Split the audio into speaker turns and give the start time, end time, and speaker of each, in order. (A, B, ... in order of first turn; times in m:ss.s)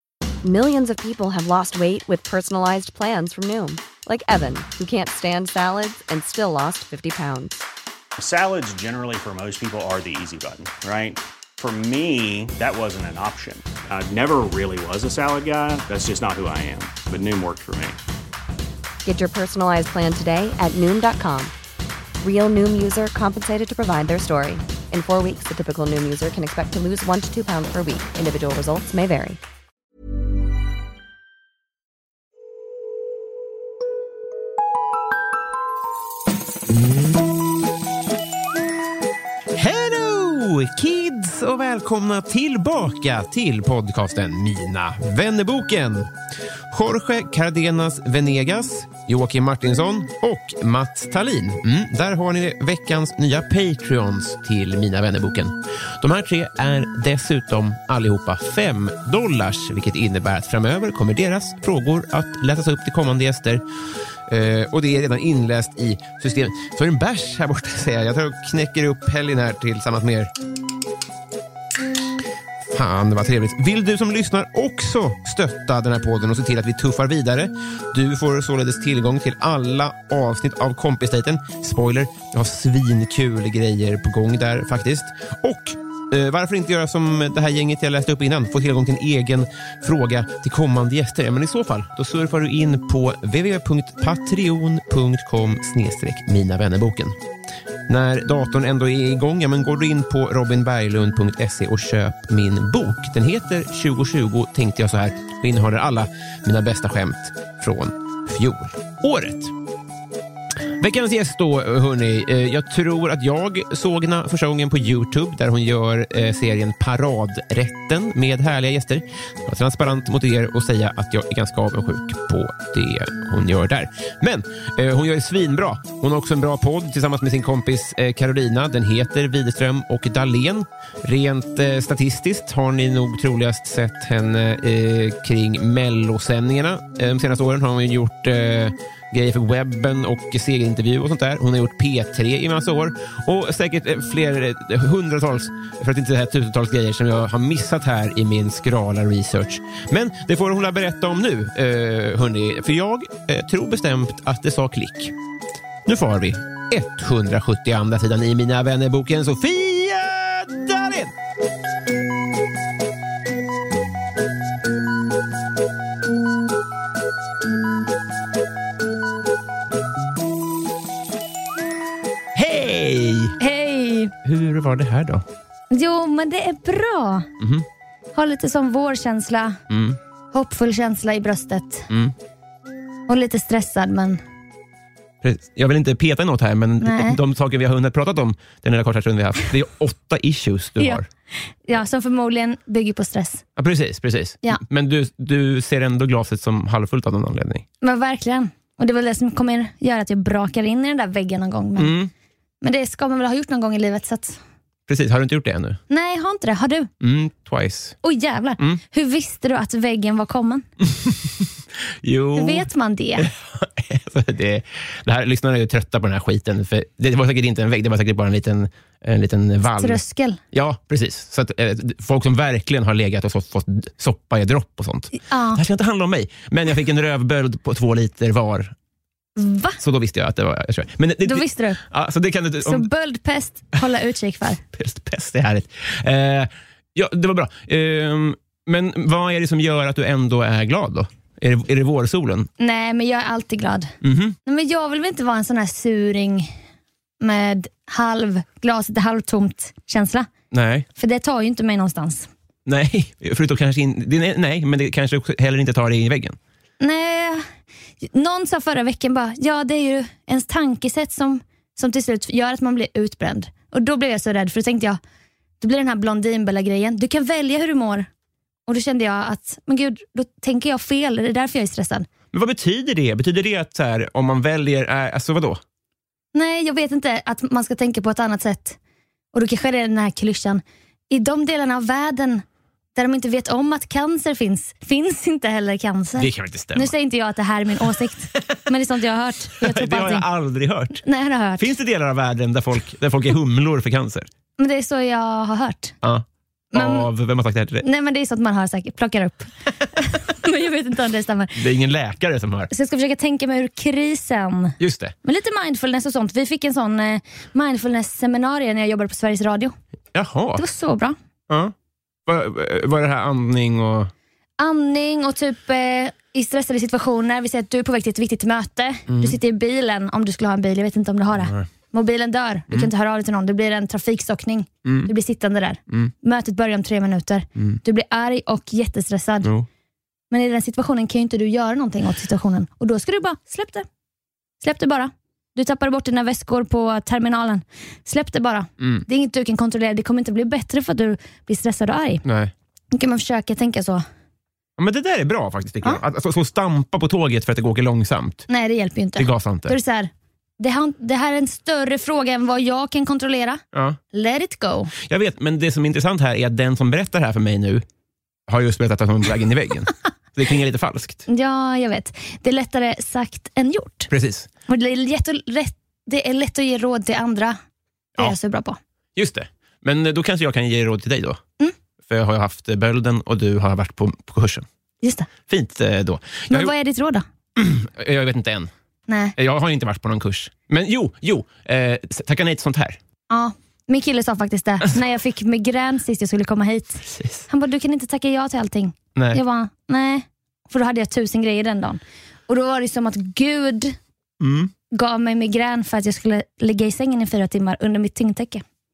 0:00.4-0:07.6 A
0:08.2-0:18.0 B
0:19.0-0:21.5 A
0:22.2-0:29.4 A
0:39.5-0:46.1 C
0:46.7-1:03.6 C
1:04.3-1:10.3 C
1:12.7-1:37.2 C
1:37.9-1:49.5 C
1:50.8-2:35.1 C
2:35.8-2:41.1 C
2:52.3-2:53.4 C
2:53.4-2:54.1 D
2:54.2-2:55.2 C
2:55.7-2:57.3 D
2:57.4-2:57.6 C
2:58.1-2:59.6 D
2:59.7-3:00.0 C
3:00.3-3:01.9 D
3:01.9-3:02.1 C
3:03.1-3:04.2 D
3:05.2-3:11.1 C
3:06.8-3:07.2 D
3:11.6-3:13.4 D
3:13.6-3:17.6 C
3:17.8-3:21.9 D
3:21.8-3:22.1 C
3:22.6-3:24.4 D
3:24.9-3:25.8 C
3:25.9-3:26.9 D
3:27.0-3:28.0 C
3:28.0-3:30.6 D
3:30.8-3:48.7 C
3:32.4-3:33.3 D
3:39.8-3:40.4 D
3:45.1-3:45.6 D
3:49.4-3:49.8 D
3:49.8-3:52.9 C
3:51.2-3:51.8 D
3:52.6-3:54.6 D
3:54.7-4:02.5 C
4:02.6-4:03.9 D
4:04.0-4:04.4 C
4:04.4-4:06.5 D
4:07.2-4:10.3 D
4:10.5-4:10.8 C
4:11.0-4:12.3 D
4:12.6-4:16.4 C
4:16.8-4:17.4 D
4:18.0-4:25.0 D
4:25.6-4:28.1 D
4:28.7-4:32.1 D
4:32.3-4:35.6 C
4:36.3-4:38.8 D
4:39.3-4:50.2 D
4:46.2-4:46.9 C
4:49.6-4:51.0 C
4:51.0-4:51.7 D
4:51.6-4:54.3 C
4:54.6-4:56.0 D
4:56.0-4:57.8 C
4:56.7-4:57.1 D
4:57.8-5:01.6 D
5:01.5-5:02.7 C
5:02.7-5:09.8 D
5:04.8-5:05.1 C
5:10.1-5:10.6 C
5:10.6-5:11.2 D
5:11.5-5:11.7 C
5:12.2-5:14.1 C
5:14.6-5:29.5 D
5:19.1-5:19.4 C
5:21.4-5:21.7 C
5:24.8-5:25.1 C
5:30.3-5:33.8 D
5:34.6-5:42.2 D
5:38.8-5:39.0 C
5:42.2-5:42.5 C
5:42.9-5:44.0 D
5:44.8-5:48.5 C
5:48.5-5:54.9 D
5:49.2-5:49.8 C
5:53.7-5:54.0 C
5:55.0-5:57.8 C
5:58.5-6:01.2 C
6:01.3-6:04.1 D
6:04.1-6:04.5 C
6:04.7-6:07.6 D
6:08.2-6:08.8 D
6:09.2-6:11.4 C
6:12.0-6:14.6 C
6:15.0-6:15.3 D
6:15.5-6:16.7 C
6:16.5-6:17.2 D
6:17.6-6:18.7 C
6:19.1-6:19.3 D
6:19.4-6:23.0 C
6:23.3-6:34.0 D
6:27.0-6:27.5 C
6:29.2-6:29.4 C
6:34.4-6:34.7 C
6:34.9-6:38.6 D